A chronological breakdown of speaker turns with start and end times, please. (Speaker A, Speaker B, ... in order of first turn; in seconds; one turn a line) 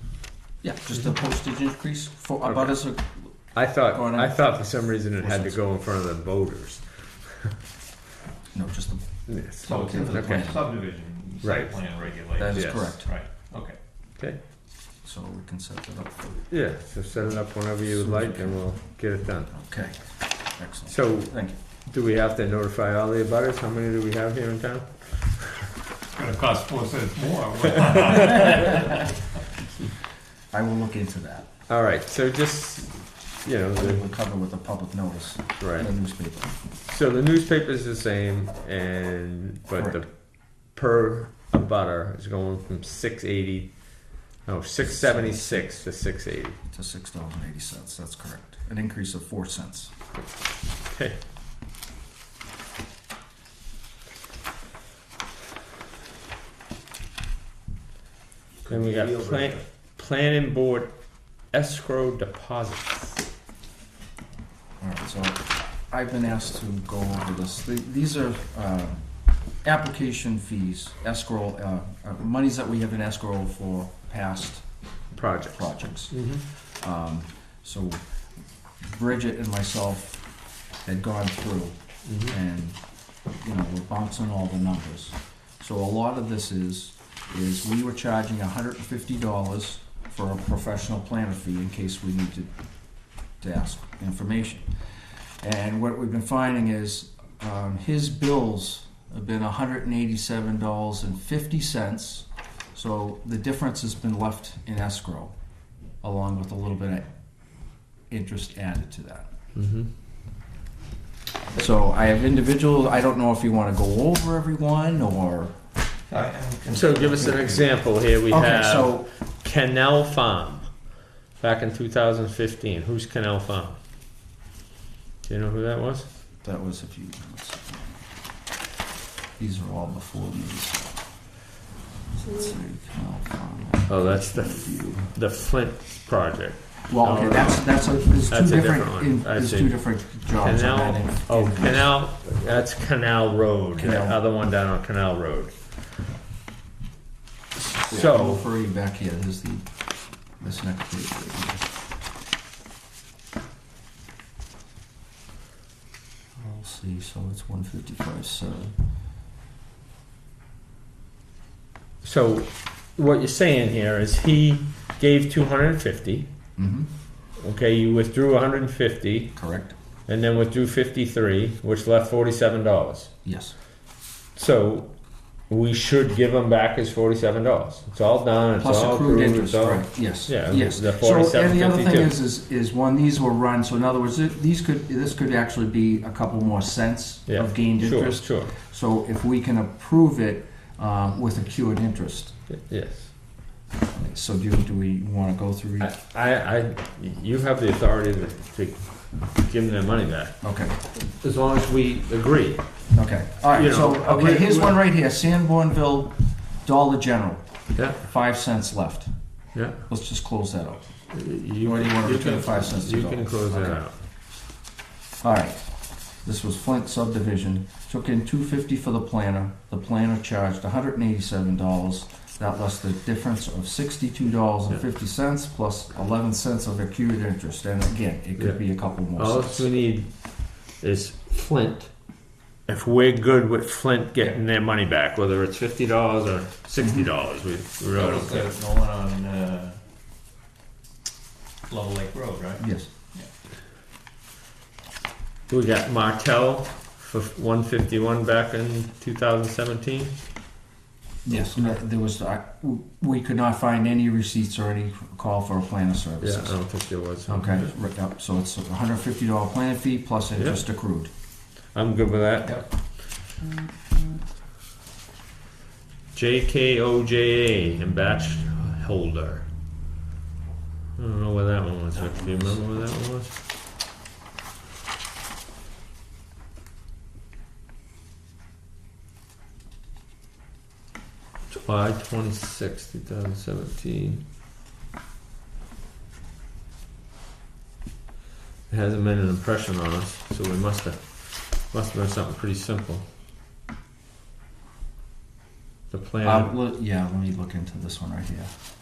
Speaker A: 0.6-3.3
Speaker B: 2.5-2.7
Speaker B: 3.5-7.5
Speaker A: 3.9-4.4
Speaker A: 5.2-5.6
Speaker A: 8.5-9.1
Speaker B: 9.3-10.5
Speaker C: 9.6-13.8
Speaker A: 9.7-10.6
Speaker B: 11.4-11.7
Speaker A: 12.4-13.1
Speaker B: 12.5-12.9
Speaker A: 15.0-16.4
Speaker B: 16.5-19.5
Speaker A: 17.9-18.6
Speaker A: 19.5-21.6
Speaker B: 20.9-25.7
Speaker C: 26.1-28.9
Speaker B: 27.9-28.5
Speaker A: 30.5-31.5
Speaker B: 31.7-34.0
Speaker A: 33.8-36.5
Speaker B: 35.6-35.9
Speaker B: 36.8-46.6
Speaker A: 39.7-40.0
Speaker A: 44.8-45.7
Speaker A: 46.7-49.9
Speaker B: 50.1-51.2
Speaker C: 58.7-59.5
Speaker B: 58.7-61.0
Speaker B: 61.5-63.2
Speaker A: 64.8-69.0
Speaker A: 69.6-74.7
Speaker B: 75.1-75.6
Speaker A: 75.5-78.0
Speaker B: 76.1-76.4
Speaker A: 78.8-80.2
Speaker A: 80.8-82.8
Speaker B: 82.0-82.3
Speaker A: 83.3-92.5
Speaker A: 93.4-94.7
Speaker A: 95.4-105.3
Speaker A: 106.0-107.1
Speaker A: 108.1-109.3
Speaker B: 109.5-109.9
Speaker A: 111.5-115.5
Speaker C: 116.1-117.7
Speaker B: 116.7-120.7
Speaker A: 118.3-119.1
Speaker B: 121.4-123.8
Speaker B: 125.2-126.1
Speaker A: 126.4-128.0
Speaker A: 129.4-131.0
Speaker A: 132.2-135.1
Speaker B: 133.9-137.7
Speaker A: 136.9-141.9
Speaker B: 138.3-145.5
Speaker A: 143.8-144.2
Speaker B: 147.8-148.4
Speaker A: 147.9-149.8
Speaker A: 150.4-151.7
Speaker A: 156.3-158.7
Speaker B: 162.0-166.3
Speaker A: 166.6-166.9
Speaker B: 167.4-169.3
Speaker A: 169.3-169.7
Speaker B: 170.1-173.1
Speaker A: 173.2-173.5
Speaker B: 174.3-174.9
Speaker B: 175.5-182.1
Speaker A: 178.6-192.3
Speaker B: 187.3-188.5
Speaker B: 192.5-193.1
Speaker A: 193.9-195.9
Speaker B: 195.8-202.9
Speaker A: 200.4-200.8
Speaker A: 202.9-209.1
Speaker B: 203.5-204.8
Speaker B: 207.7-208.0
Speaker B: 209.5-209.8
Speaker A: 209.9-210.8
Speaker B: 211.1-213.9
Speaker A: 211.6-213.8
Speaker A: 215.2-229.7
Speaker B: 228.4-231.9
Speaker B: 232.7-238.5
Speaker A: 236.8-237.1
Speaker C: 237.9-239.8
Speaker C: 241.7-243.3
Speaker A: 242.6-242.9
Speaker B: 245.5-250.1
Speaker A: 251.2-256.7
Speaker B: 251.3-251.7
Speaker B: 256.2-257.7
Speaker A: 257.2-261.1
Speaker B: 260.4-260.6
Speaker B: 261.7-262.6
Speaker B: 266.1-269.5
Speaker B: 271.0-273.3
Speaker B: 281.5-284.2
Speaker B: 288.7-293.0
Speaker B: 295.9-296.5
Speaker A: 296.2-298.5